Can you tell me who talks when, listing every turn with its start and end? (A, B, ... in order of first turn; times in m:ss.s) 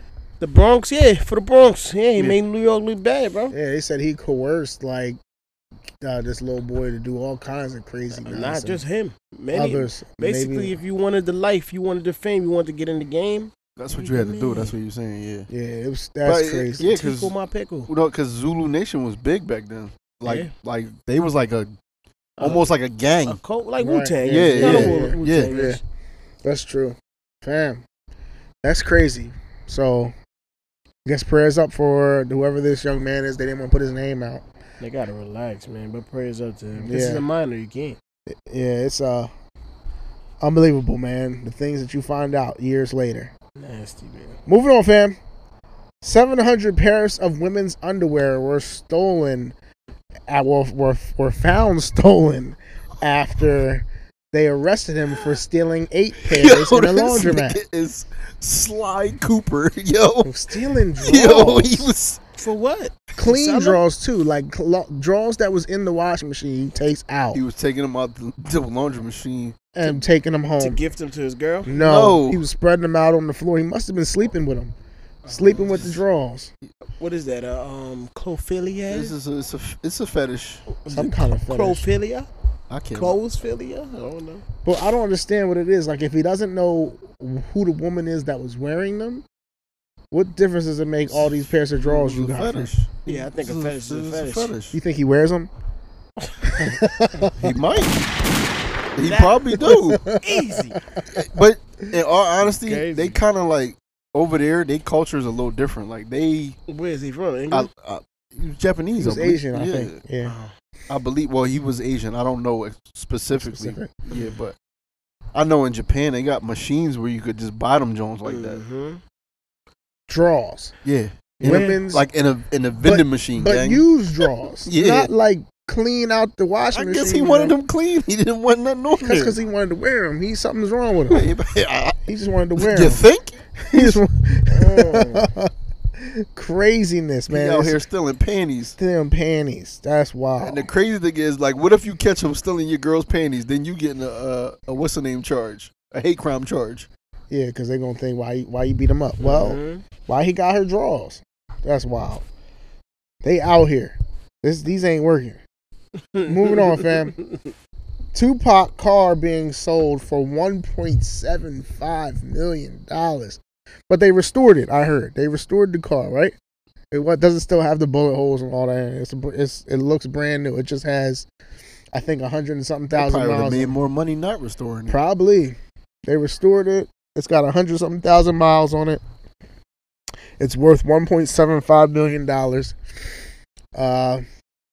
0:00.4-0:03.6 A
0:03.5-0:05.2 B
0:06.0-0:08.8 B
0:08.2-0:14.7 A
0:09.5-0:10.8 B
0:13.8-0:15.5 C
0:15.5-0:16.8 B
0:16.2-0:17.3 C
0:16.8-0:17.9 A
0:17.9-0:21.7 C
0:20.2-0:20.5 A
0:22.4-0:22.7 A
0:22.4-0:23.4 C
0:23.2-0:25.8 A
0:23.8-0:25.8 B
0:24.2-0:25.5 C
0:26.4-0:27.8 B
0:28.6-0:30.1 B
0:31.0-0:34.4 B
0:34.8-0:38.0 A
0:36.8-0:37.2 B
0:38.3-0:39.3 B
0:40.4-0:43.3 B
0:43.6-0:44.4 A
0:44.5-0:45.2 B
0:46.0-0:49.6 B
0:50.3-0:57.6 B
0:56.2-1:00.3 C
1:00.2-1:01.9 B
1:01.0-1:02.2 C
1:02.4-1:03.8 A
1:03.2-1:07.4 B
1:07.3-1:09.6 C
1:09.7-1:10.8 B
1:10.6-1:11.7 A
1:11.7-1:14.7 B
1:11.7-1:12.4 C
1:15.2-1:16.0 A
1:15.3-1:16.5 B
1:17.0-1:19.1 A
1:18.9-1:20.7 C
1:20.7-1:22.3 A
1:20.9-1:21.9 B
1:22.7-1:23.2 C
1:22.9-1:24.4 A
1:24.6-1:29.2 B
1:30.1-1:32.7 B
1:31.8-1:34.8 C
1:33.0-1:34.5 A
1:34.7-1:35.5 B
1:36.4-1:37.5 B
1:37.4-1:38.0 C
1:39.0-1:40.0 C
1:39.0-1:39.6 A
1:39.6-1:40.4 B
1:40.1-1:40.8 A
1:41.0-1:41.2 B
1:41.2-1:46.6 C
1:42.5-1:43.2 A
1:46.7-1:47.7 A
1:47.5-1:50.0 C
1:49.0-1:50.3 B
1:50.2-1:50.5 A
1:50.9-1:54.6 C
1:53.3-1:53.9 B
1:55.3-1:58.6 C
1:58.3-1:59.0 A
2:00.1-2:00.7 B
2:00.8-2:03.8 C
2:01.4-2:02.1 B
2:01.4-2:01.8 A
2:02.8-2:07.6 B
2:04.7-2:05.1 C
2:06.7-2:09.3 C
2:09.0-2:11.3 B
2:11.1-2:12.0 C
2:12.0-2:13.0 B
2:12.6-2:14.0 C
2:13.7-2:17.8 B
2:14.5-2:15.3 A
2:17.3-2:18.8 C
2:18.8-2:20.7 B
2:20.4-2:26.9 C
2:27.3-2:32.2 B
2:29.2-2:29.8 A
2:33.2-2:35.4 B
2:36.1-2:37.5 A
2:36.3-2:37.2 B
2:38.1-2:46.4 B
2:46.9-2:51.3 B
2:51.9-2:53.8 B
2:52.9-2:55.0 C
2:54.9-2:59.0 B
3:00.4-3:02.8 B
3:03.7-3:04.2 B